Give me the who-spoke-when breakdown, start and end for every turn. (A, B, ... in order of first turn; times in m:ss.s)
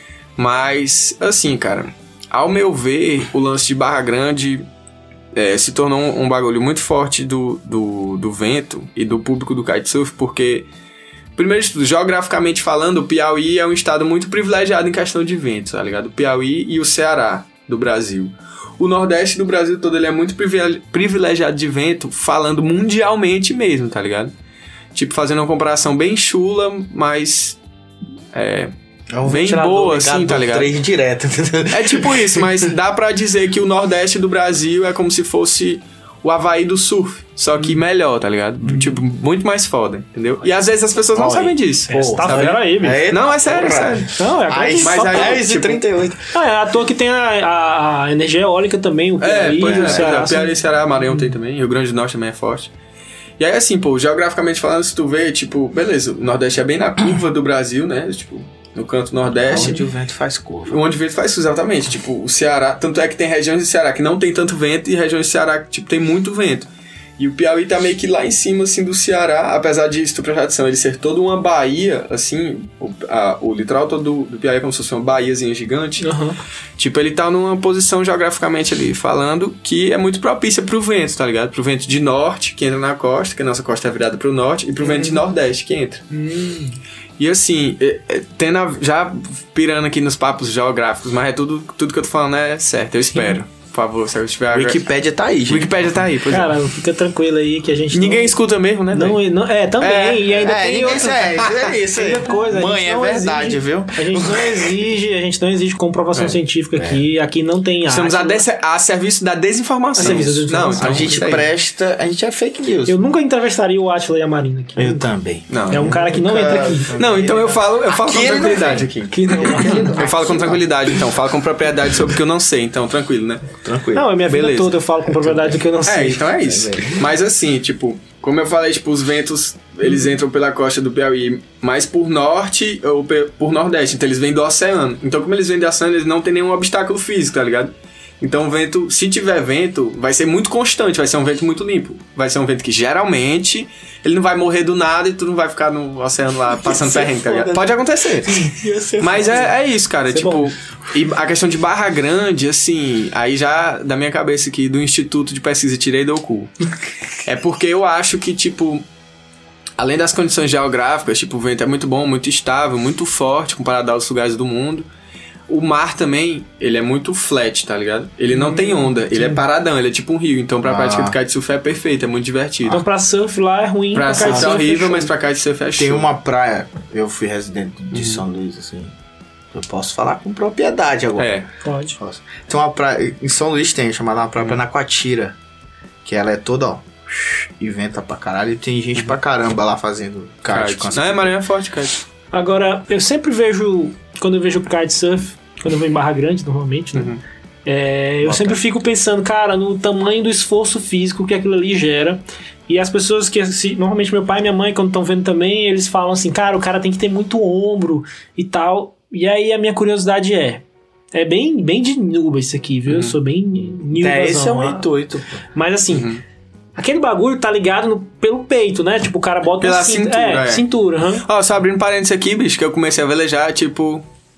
0:00.4-0:04.7 A
0:05.3-0:10.7 A
0:11.4-0:24.3 A
0:25.0-0:27.6 A
0:28.3-0:28.7 A
0:29.1-0:32.7 B
0:29.3-0:30.7 A
0:31.7-0:44.2 A
0:41.1-0:46.3 B
0:41.9-0:43.1 C
0:44.1-0:45.4 C
0:44.8-0:45.8 A
0:46.3-0:51.3 C
0:49.2-0:52.7 A
0:49.6-0:50.1 B
0:53.4-0:59.9 A
0:59.5-1:00.8 B
0:59.5-0:59.8 C
1:00.7-1:16.1 A
1:16.0-1:16.4 C
1:16.8-1:26.0 A
1:24.8-1:25.2 C
1:26.1-1:26.8 C
1:27.2-1:34.8 A
1:33.1-1:33.4 C
1:34.5-1:35.9 B
1:35.5-1:36.6 A
1:36.3-1:38.4 C
1:37.9-1:39.2 A
1:38.9-1:48.4 C
1:39.8-1:40.3 A
1:40.3-1:44.8 B
1:40.9-1:41.8 A
1:46.8-1:47.0 B
1:47.9-1:51.5 A
1:50.0-1:51.4 C
1:50.0-1:53.0 B
1:52.9-1:55.1 C
1:54.8-2:01.0 B
1:55.5-1:56.0 A
1:55.7-1:57.0 C
1:56.9-2:03.6 A
1:59.1-2:00.0 C
2:03.6-2:04.2 B
2:04.0-2:06.3 C
2:04.3-2:04.8 A
2:05.3-2:05.6 B
2:05.8-2:28.4 A
2:06.4-2:07.1 B
2:26.6-2:27.7 B
2:28.3-2:29.5 C
2:28.3-2:29.4 B
2:29.0-2:36.5 A
2:30.1-2:30.5 C
2:37.2-2:38.8 A
2:39.8-2:44.9 A
2:45.5-2:52.8 A
2:48.3-2:49.4 C
2:50.6-2:51.2 B
2:52.7-2:55.1 C
2:53.9-2:56.1 A
2:54.2-2:54.6 B
2:55.8-2:58.9 B
2:57.9-2:58.2 A
2:59.5-3:01.3 B
3:01.2-3:01.5 A
3:01.6-3:02.0 C
3:02.0-3:05.4 B
3:06.0-3:11.4 B
3:10.5-3:12.0 A
3:12.3-3:30.6 C
3:17.0-3:17.2 A
3:18.2-3:18.6 B
3:31.1-3:34.9 C
3:32.9-3:33.2 A
3:34.0-3:35.4 B
3:35.6-3:36.1 C
3:35.9-3:36.2 A
3:36.8-3:41.3 C
3:39.6-3:40.7 A
3:41.2-3:44.0 A